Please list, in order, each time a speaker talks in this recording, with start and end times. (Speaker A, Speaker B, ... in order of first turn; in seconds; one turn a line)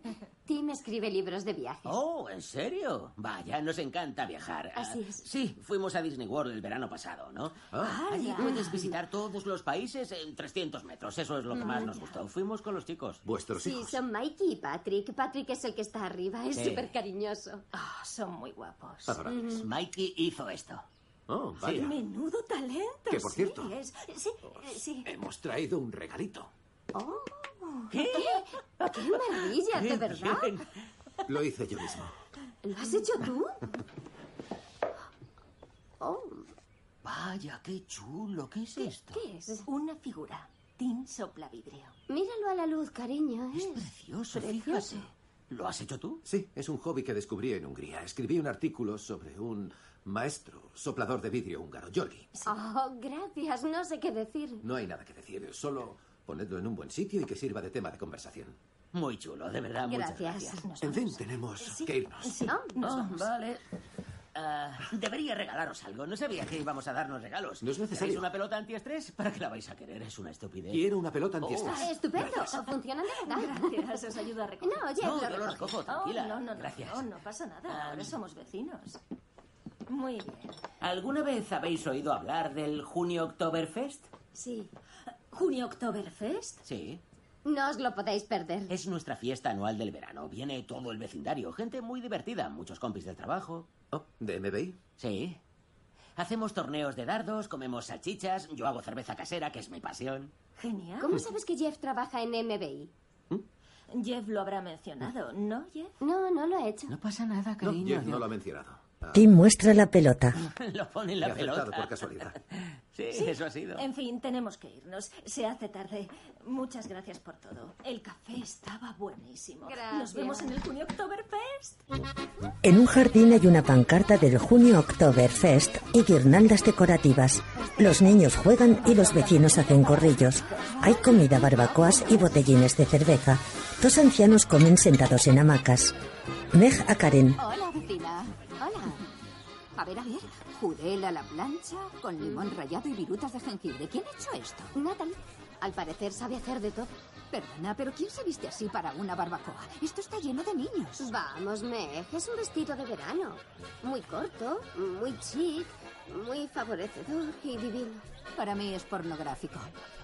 Speaker A: 0.5-1.9
Speaker B: 1.9-13.2
Speaker C: 7.7-8.0
Speaker D: 7.8-8.8
Speaker A: 8.4-8.9
Speaker D: 11.6-12.1
Speaker A: 11.6-11.9
Speaker C: 13.2-14.0
Speaker A: 13.6-17.7
Speaker B: 16.5-16.9
Speaker D: 17.7-19.3
Speaker C: 19.1-19.7
Speaker A: 19.3-19.7
Speaker B: 19.4-20.9
Speaker C: 21.3-22.0
Speaker D: 21.6-25.1
Speaker C: 23.1-23.7
Speaker C: 24.4-26.5
Speaker A: 26.9-30.6
Speaker D: 27.9-28.4
Speaker C: 31.3-32.1
Speaker A: 32.6-33.6
Speaker A: 36.0-36.5
Speaker B: 37.0-39.2
Speaker A: 38.8-39.7
Speaker D: 39.6-41.9
Speaker A: 42.1-44.9
Speaker B: 43.5-46.2
Speaker C: 46.2-52.3
Speaker A: 52.5-54.6
Speaker C: 54.6-58.6
Speaker B: 58.9-60.6
Speaker A: 59.9-60.7
Speaker D: 60.6-63.3
Speaker C: 60.8-62.4
Speaker A: 62.5-62.8
Speaker B: 62.8-63.6
Speaker B: 64.3-70.9
Speaker C: 67.6-68.3
Speaker C: 70.7-71.9
Speaker B: 71.4-72.3
Speaker D: 71.5-75.1
Speaker A: 71.7-74.0
Speaker A: 74.6-75.7
Speaker B: 75.0-77.1
Speaker D: 75.8-79.0
Speaker B: 77.7-78.2
Speaker D: 79.9-80.6
Speaker B: 80.8-84.1
Speaker A: 84.3-84.7
Speaker D: 85.3-86.6
Speaker B: 86.6-87.0
Speaker A: 87.4-88.7
Speaker B: 88.7-93.7
Speaker C: 93.9-94.8
Speaker B: 95.0-95.4
Speaker B: 96.2-100.3
Speaker D: 100.6-101.2
Speaker A: 101.0-102.9
Speaker D: 103.9-105.9
Speaker A: 106.0-106.9
Speaker B: 106.9-108.3
Speaker C: 107.6-109.2
Speaker E: 109.1-110.4
Speaker B: 110.3-113.8
Speaker C: 111.2-112.4
Speaker D: 113.1-121.8
Speaker A: 119.7-120.5
Speaker E: 122.6-135.9
Speaker E: 136.5-137.4
Speaker F: 137.4-138.4
Speaker A: 138.6-139.0
Speaker F: 139.8-144.7
Speaker A: 142.2-142.5
Speaker A: 144.8-146.9
Speaker F: 147.3-151.1
Speaker A: 151.0-158.1
Speaker F: 158.4-159.7